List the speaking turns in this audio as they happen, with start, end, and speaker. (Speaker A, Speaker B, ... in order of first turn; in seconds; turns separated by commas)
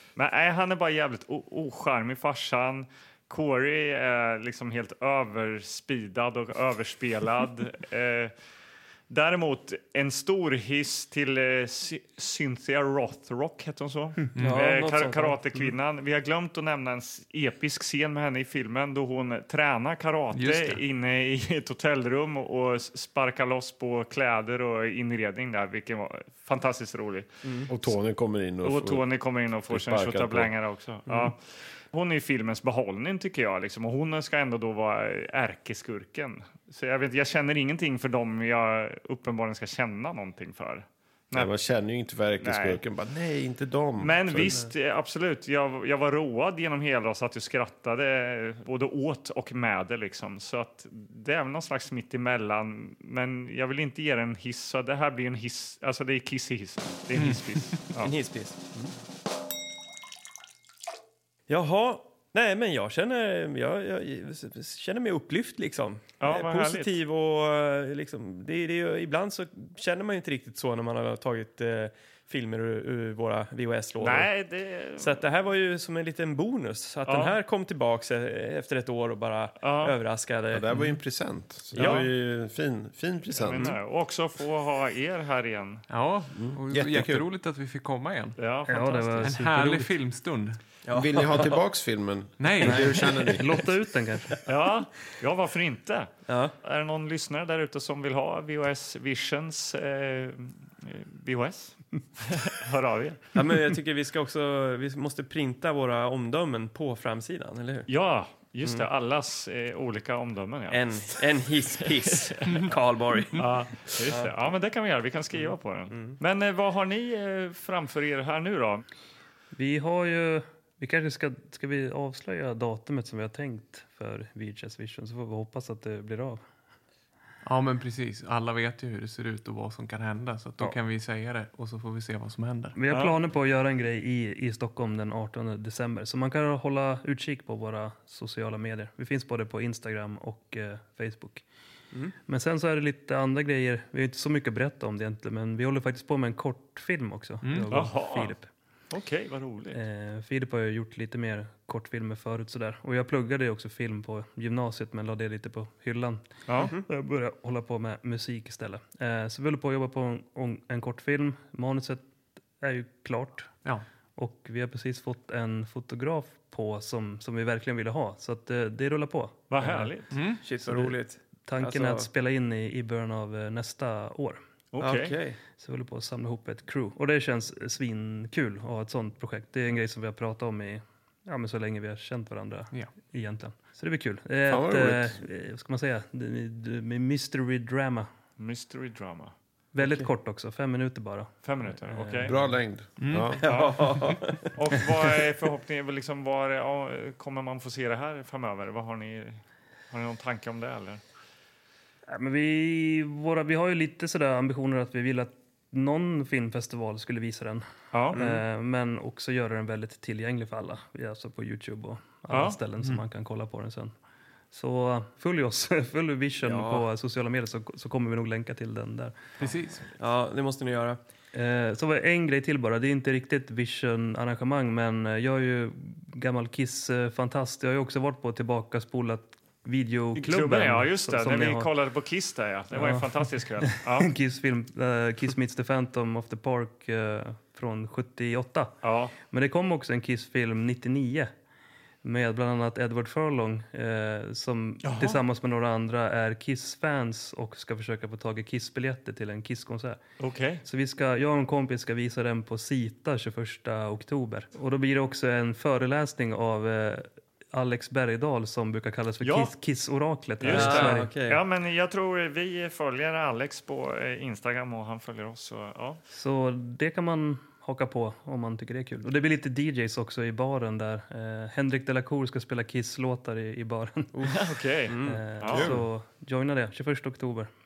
Speaker A: 0.1-8.3, Speaker A: 9.1-27.7, Speaker B: 14.3-14.6, Speaker C: 14.4-15.4, Speaker B: 20.3-20.8, Speaker C: 27.4-27.7, Speaker D: 27.7-29.0, Speaker A: 28.6-31.4, Speaker D: 29.7-30.5, Speaker A: 31.9-41.5, Speaker D: 41.3-44.6, Speaker A: 42.4-42.8, Speaker A: 44.0-58.1, Speaker B: 57.1-57.7, Speaker C: 58.0-58.9, Speaker C: 61.5-74.3, Speaker A: 66.2-66.9, Speaker A: 74.0-75.2, Speaker C: 75.0-80.6, Speaker A: 77.0-77.3, Speaker A: 79.6-80.0, Speaker D: 80.5-83.7, Speaker C: 81.7-82.1, Speaker A: 81.8-82.1, Speaker A: 83.4-85.8, Speaker B: 85.9-88.4, Speaker D: 86.3-87.2, Speaker A: 88.4-89.3, Speaker E: 88.7-89.9, Speaker B: 89.2-90.6, Speaker C: 90.8-91.6, Speaker D: 90.9-93.4, Speaker B: 92.4-93.3, Speaker E: 93.4-94.3, Speaker A: 94.5-103.3, Speaker C: 96.3-96.5, Speaker C: 103.3-107.9, Speaker A: 107.9-110.8, Speaker C: 110.7-113.5, Speaker A: 111.8-112.7, Speaker A: 113.3-118.8, Speaker C: 114.1-114.3, Speaker C: 115.4-116.2, Speaker E: 119.5-126.4, Speaker B: 127.4-132.8, Speaker E: 132.8-141.4, Speaker E: 142.3-148.5, Speaker B: 147.4-147.9, Speaker A: 147.7-148.3, Speaker A: 148.9-149.8, Speaker E: 149.7-162.0, Speaker A: 156.5-156.7, Speaker C: 156.6-156.8, Speaker E: 162.6-163.5, Speaker E: 164.2-169.9, Speaker A: 169.5-170.1, Speaker B: 170.1-170.4, Speaker C: 170.4-172.1, Speaker E: 170.6-174.4, Speaker A: 174.7-175.2, Speaker C: 174.8-175.4, Speaker E: 175.6-188.1, Speaker D: 184.5-185.2, Speaker A: 188.4-189.3, Speaker E: 189.7-192.5, Speaker C: 189.8-190.1, Speaker A: 191.4-192.3, Speaker D: 192.2-193.4, Speaker B: 193.0-193.4, Speaker C: 193.4-194.5, Speaker A: 193.4-193.8, Speaker A: 194.5-199.4, Speaker A: 199.9-201.0, Speaker E: 202.1-213.9, Speaker A: 207.9-208.2, Speaker C: 208.1-208.4, Speaker A: 212.3-212.6, Speaker E: 214.5-219.2, Speaker C: 216.4-216.8, Speaker B: 219.4-219.8, Speaker C: 220.0-221.0, Speaker E: 221.3-231.7, Speaker A: 230.2-234.1, Speaker E: 232.7-241.3, Speaker A: 238.8-239.1, Speaker E: 242.0-250.0, Speaker A: 244.8-245.2, Speaker A: 250.2-250.6, Speaker E: 250.6-261.1, Speaker A: 259.2-259.5, Speaker A: 260.4-266.0, Speaker C: 260.5-261.4, Speaker E: 266.1-274.1, Speaker C: 274.1-275.4, Speaker A: 274.3-275.7, Speaker E: 275.0-277.5, Speaker D: 275.5-275.9